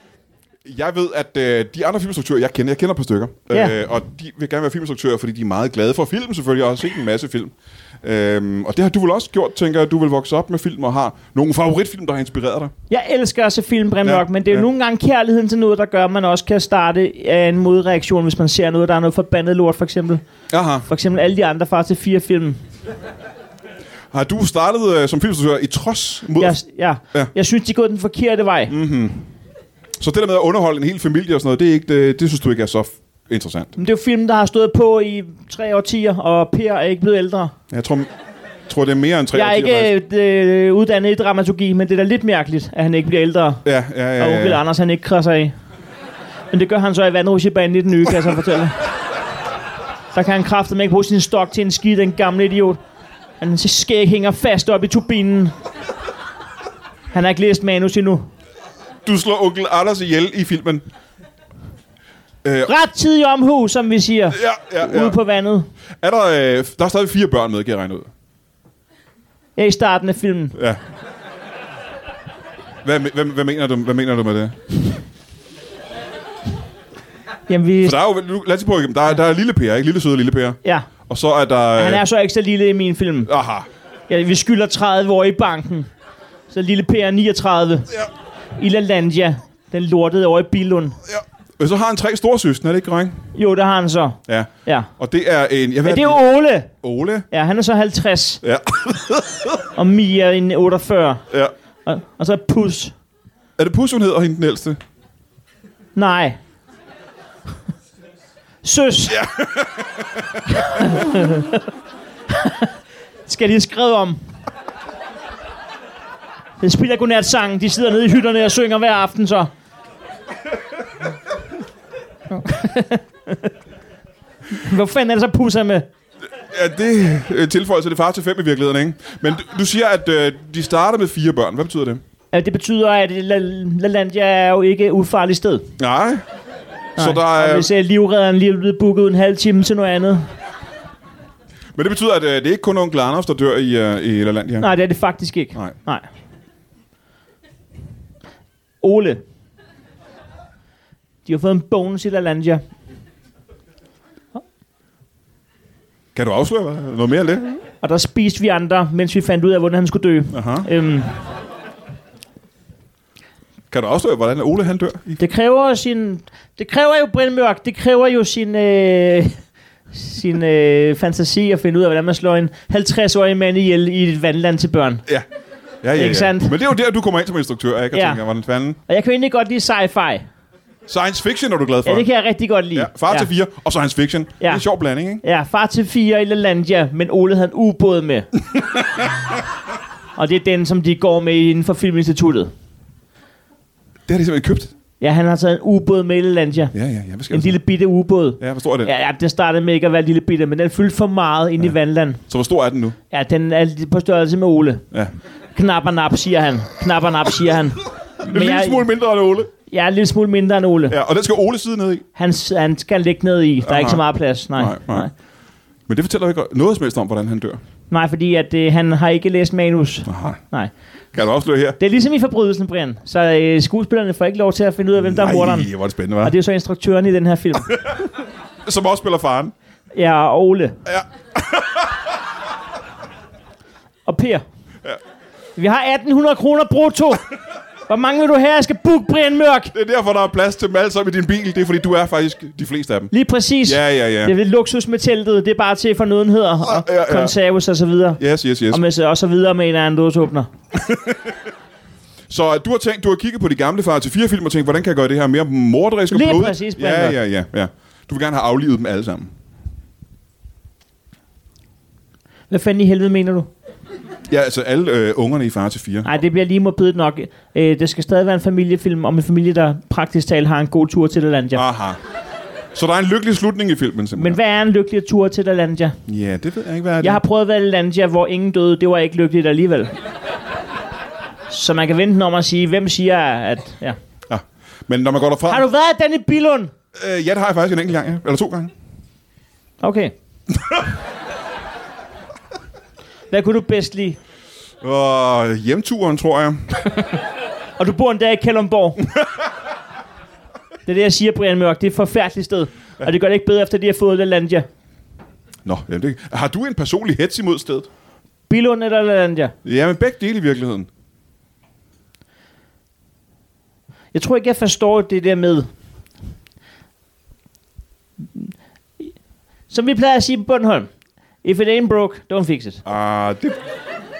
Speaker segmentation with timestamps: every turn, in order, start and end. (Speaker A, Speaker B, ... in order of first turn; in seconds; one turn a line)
Speaker A: 0.6-12.7
Speaker B: 12.9-20.2
Speaker A: 14.0-14.7
Speaker A: 20.5-20.9
Speaker B: 20.9-22.6
Speaker A: 24.1-26.6
Speaker B: 26.4-28.7
Speaker A: 28.7-29.3
Speaker A: 30.0-33.7
Speaker B: 33.8-37.5
Speaker A: 37.7-38.1
Speaker A: 38.7-39.9
Speaker B: 39.3-43.6
Speaker A: 43.6-44.6
Speaker B: 44.2-45.5
Speaker B: 46.5-48.8
Speaker B: 50.1-52.8
Speaker B: 53.4-55.5
Speaker B: 57.1-58.3
Speaker A: 59.0-60.8
Speaker A: 62.4-62.7
Speaker B: 62.6-65.7
Speaker A: 64.3-65.2
Speaker A: 66.0-68.1
Speaker B: 69.5-70.5
Speaker A: 70.5-70.8
Speaker A: 72.8-74.9
Speaker B: 77.5-78.0
Speaker A: 77.8-82.0
Speaker B: 81.8-83.3
Speaker A: 83.2-83.7
Speaker B: 84.1-85.9
Speaker B: 86.5-88.0
Speaker B: 88.6-91.0
Speaker A: 91.1-93.3
Speaker B: 93.3-94.9
Speaker A: 94.3-96.2
Speaker B: 95.8-96.7
Speaker A: 96.8-97.2
Speaker B: 97.3-98.4
Speaker A: 98.4-99.6
Speaker B: 99.8-101.2
Speaker B: 101.8-102.9
Speaker A: 103.6-104.8
Speaker B: 105.9-106.4
Speaker B: 108.6-109.2
Speaker A: 109.1-111.0
Speaker B: 110.8-111.6
Speaker B: 112.3-112.7
Speaker B: 113.2-114.2
Speaker B: 116.6-119.5
Speaker B: 122.3-123.5
Speaker B: 124.5-125.9
Speaker A: 126.5-132.0
Speaker B: 132.3-135.7
Speaker A: 135.8-136.2
Speaker A: 137.0-137.7
Speaker B: 137.0-140.3
Speaker A: 141.7-144.7
Speaker B: 144.6-146.0
Speaker B: 148.8-149.2
Speaker B: 151.2-152.6
Speaker A: 156.1-157.6
Speaker B: 157.8-161.1
Speaker A: 160.3-160.7
Speaker A: 163.7-165.2
Speaker B: 165.2-169.4
Speaker B: 169.9-175.0
Speaker A: 175.8-178.8
Speaker B: 175.9-176.6
Speaker B: 177.9-178.2
Speaker B: 178.9-180.2
Speaker A: 180.9-182.1
Speaker B: 181.8-183.3
Speaker A: 182.7-185.2
Speaker B: 184.4-184.6
Speaker B: 185.2-188.3
Speaker A: 188.6-189.1
Speaker B: 190.2-192.5
Speaker A: 194.1-194.7
Speaker B: 195.0-196.7
Speaker A: 196.7-197.6
Speaker B: 197.3-202.2
Speaker A: 198.4-198.9
Speaker A: 202.3-203.0
Speaker B: 203.1-204.8
Speaker B: 205.5-208.9
Speaker A: 208.2-209.5
Speaker B: 209.7-211.0
Speaker A: 210.9-212.0
Speaker B: 212.1-215.1
Speaker A: 213.6-215.1
Speaker A: 215.9-217.6
Speaker B: 217.9-220.7
Speaker A: 220.1-220.4
Speaker A: 221.1-221.8
Speaker B: 221.8-225.7
Speaker A: 225.0-226.3
Speaker B: 226.2-227.8
Speaker A: 228.6-229.5
Speaker B: 229.9-230.8
Speaker A: 230.8-232.1
Speaker B: 234.1-234.4
Speaker B: 235.6-237.3
Speaker B: 237.9-239.7
Speaker A: 239.7-243.1
Speaker B: 243.1-250.5
Speaker A: 243.7-244.3
Speaker A: 246.6-247.3
Speaker A: 248.2-248.8
Speaker A: 250.7-251.4
Speaker A: 252.3-259.3
Speaker B: 256.1-257.2
Speaker B: 262.5-263.5
Speaker A: 264.3-266.1
Speaker B: 266.0-271.6
Speaker A: 271.5-272.0
Speaker A: 272.7-274.4
Speaker B: 274.1-276.0
Speaker A: 276.1-277.2
Speaker B: 277.0-279.9
Speaker B: 281.5-284.0
Speaker A: 284.3-285.6
Speaker B: 285.5-286.7
Speaker A: 286.9-288.7
Speaker B: 289.8-290.1
Speaker B: 293.3-294.2
Speaker A: 294.8-296.9
Speaker B: 297.8-299.0
Speaker B: 300.9-304.7
Speaker A: 305.6-307.9
Speaker B: 308.5-309.5
Speaker A: 309.6-310.9
Speaker B: 314.1-315.7
Speaker B: 318.3-319.1
Speaker B: 319.7-320.9
Speaker B: 321.4-322.8
Speaker A: 322.8-323.6